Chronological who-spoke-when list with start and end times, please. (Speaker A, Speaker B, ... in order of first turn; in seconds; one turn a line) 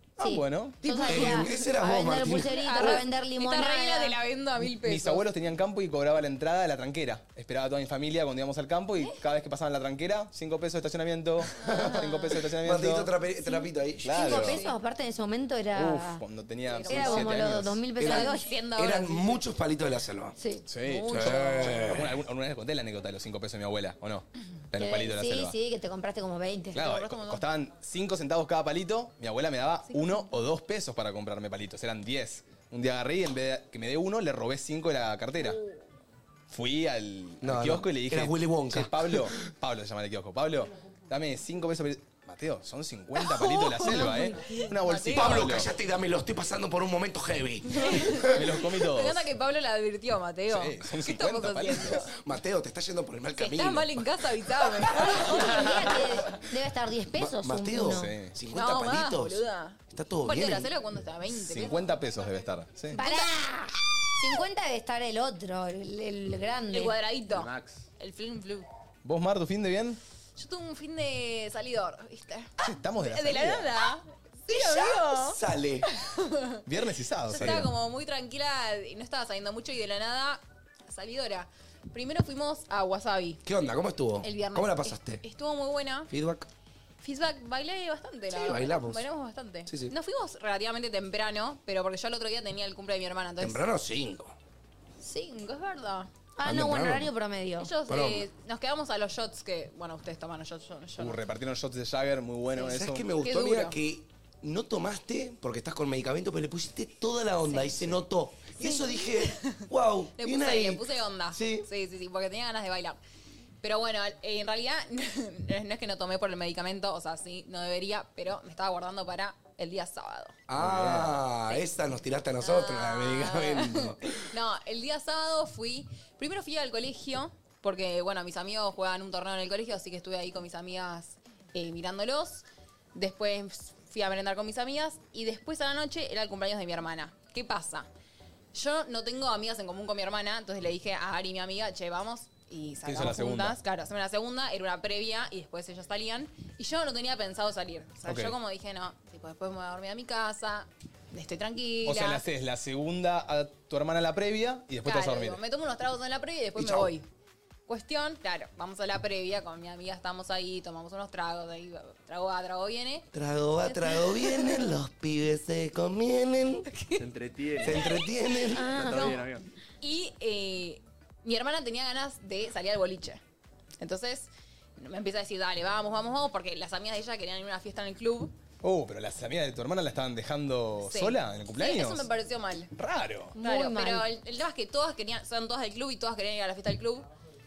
Speaker A: 0.2-0.8
Speaker B: 0.2-4.2
Speaker C: 0.8-1.6
Speaker D: 1.0-3.0
Speaker C: 2.4-5.2
Speaker A: 4.6-13.1
Speaker C: 11.6-12.4
Speaker D: 11.6-12.0
Speaker D: 12.6-14.6
Speaker B: 13.4-16.2
Speaker A: 14.0-14.6
Speaker C: 14.5-14.8
Speaker A: 15.7-17.8
Speaker C: 16.6-19.4
Speaker B: 16.9-18.5
Speaker D: 18.0-20.3
Speaker B: 20.4-22.0
Speaker A: 20.7-25.5
Speaker D: 21.1-22.1
Speaker B: 24.8-26.8
Speaker A: 26.7-35.6
Speaker C: 26.7-27.4
Speaker C: 29.9-30.3
Speaker A: 36.5-45.7
Speaker D: 37.4-39.3
Speaker C: 43.1-45.6
Speaker D: 45.1-48.3
Speaker C: 47.7-52.1
Speaker A: 48.3-49.3
Speaker A: 50.5-52.0
Speaker D: 52.1-55.7
Speaker C: 53.3-56.1
Speaker B: 55.3-58.1
Speaker D: 57.1-60.7
Speaker A: 57.8-58.3
Speaker C: 58.5-61.8
Speaker A: 61.3-63.0
Speaker C: 62.9-63.3
Speaker B: 62.9-66.9
Speaker C: 66.7-68.7
Speaker E: 67.3-67.8
Speaker A: 69.0-70.0
Speaker C: 70.3-75.4
Speaker A: 72.6-73.7
Speaker D: 74.5-75.9
Speaker C: 76.0-76.6
Speaker A: 76.7-77.7
Speaker C: 77.3-83.4
Speaker D: 83.4-85.2
Speaker C: 84.2-86.1
Speaker D: 86.1-86.5
Speaker C: 87.0-93.7
Speaker D: 88.3-89.1
Speaker D: 89.7-89.9
Speaker D: 93.4-94.3
Speaker C: 95.0-96.1
Speaker B: 96.4-97.7
Speaker D: 96.4-97.1
Speaker C: 97.6-101.2
Speaker D: 97.9-98.2
Speaker A: 101.0-103.1
Speaker D: 102.6-111.7
Speaker C: 103.2-103.8
Speaker C: 107.4-107.9
Speaker C: 108.6-109.7
Speaker C: 110.2-113.0
Speaker C: 113.6-120.3
Speaker D: 120.5-124.0
Speaker A: 120.6-121.2
Speaker C: 122.4-137.9
Speaker C: 138.5-152.2
Speaker A: 142.8-143.6
Speaker A: 148.0-148.3
Speaker A: 151.8-155.4
Speaker C: 154.8-157.1
Speaker D: 156.6-156.9
Speaker C: 157.7-163.1
Speaker D: 163.1-166.7
Speaker C: 163.6-164.8
Speaker C: 166.7-167.0
Speaker E: 166.9-167.9
Speaker D: 167.6-169.0
Speaker C: 167.6-168.1
Speaker B: 168.5-169.2
Speaker E: 168.7-169.5
Speaker C: 168.9-169.2
Speaker C: 169.8-173.2
Speaker C: 173.8-178.3
Speaker A: 178.6-182.1
Speaker C: 180.8-182.7
Speaker A: 182.7-183.4
Speaker B: 183.4-184.1
Speaker C: 183.4-187.1